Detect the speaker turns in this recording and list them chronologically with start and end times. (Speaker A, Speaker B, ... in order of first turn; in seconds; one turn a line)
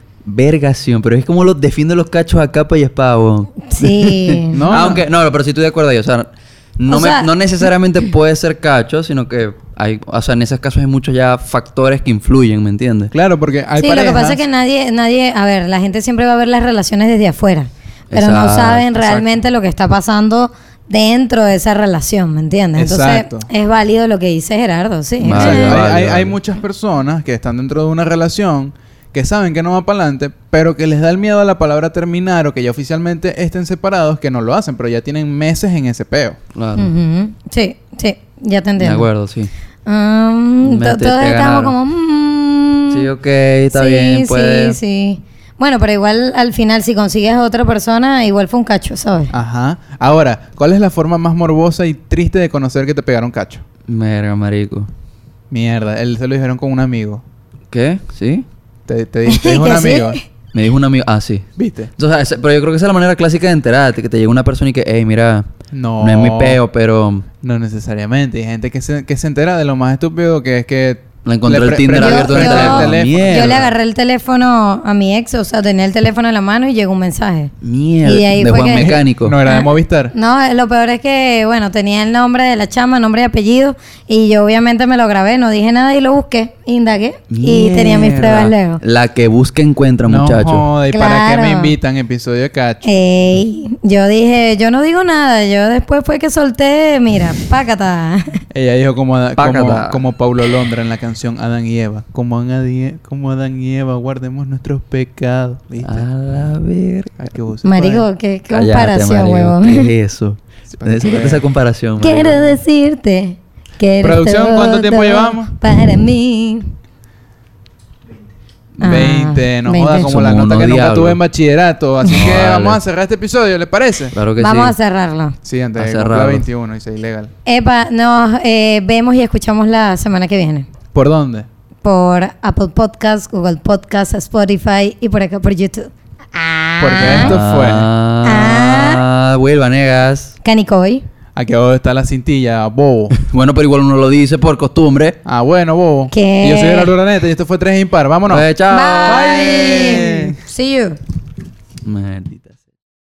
Speaker A: 0.2-13.1
Speaker B: 3.7-4.6
Speaker C: 4.5-5.0
Speaker B: 6.9-7.7
Speaker C: 13.1-14.4
Speaker B: 13.8-25.8
Speaker A: 18.1-19.2
Speaker C: 22.8-23.5
Speaker A: 25.2-26.4
Speaker C: 25.2-36.4
Speaker A: 36.5-36.9
Speaker B: 36.8-39.1
Speaker A: 38.8-39.5
Speaker B: 39.9-43.1
Speaker A: 40.6-41.7
Speaker A: 42.9-44.8
Speaker B: 43.7-49.3
Speaker C: 49.3-53.6
Speaker A: 53.9-54.9
Speaker C: 55.5-57.2
Speaker A: 57.7-58.5
Speaker C: 58.9-60.2
Speaker B: 59.2-60.2
Speaker A: 60.5-61.5
Speaker C: 61.6-61.9
Speaker A: 62.0-65.5
Speaker C: 65.7-66.6
Speaker A: 66.0-67.2
Speaker C: 67.4-73.7
Speaker A: 71.2-73.6
Speaker B: 71.9-88.8
Speaker A: 77.6-79.3
Speaker C: 78.7-80.1
Speaker A: 87.3-90.7
Speaker C: 90.1-92.8
Speaker B: 90.9-91.8
Speaker B: 92.8-98.4
Speaker C: 98.5-106.1
Speaker A: 99.4-100.0
Speaker A: 105.8-107.1
Speaker C: 107.2-108.0
Speaker B: 107.6-109.9
Speaker A: 108.5-112.6
Speaker C: 110.7-111.4
Speaker B: 112.0-116.7
Speaker C: 114.0-115.5
Speaker C: 118.8-124.1
Speaker B: 118.8-120.1
Speaker A: 120.0-121.2
Speaker A: 122.0-122.8
Speaker A: 124.1-124.7
Speaker B: 124.4-125.3
Speaker C: 125.4-127.3
Speaker A: 125.8-126.5
Speaker B: 127.5-130.7
Speaker C: 130.9-131.5
Speaker B: 131.8-137.4
Speaker C: 136.8-137.9
Speaker A: 137.0-140.3
Speaker B: 138.2-139.0
Speaker B: 140.4-141.0
Speaker C: 141.3-143.1
Speaker A: 143.2-145.2
Speaker C: 145.2-148.4
Speaker B: 146.1-146.9
Speaker A: 148.3-150.3
Speaker B: 148.7-151.0
Speaker C: 149.1-150.4
Speaker A: 151.8-152.5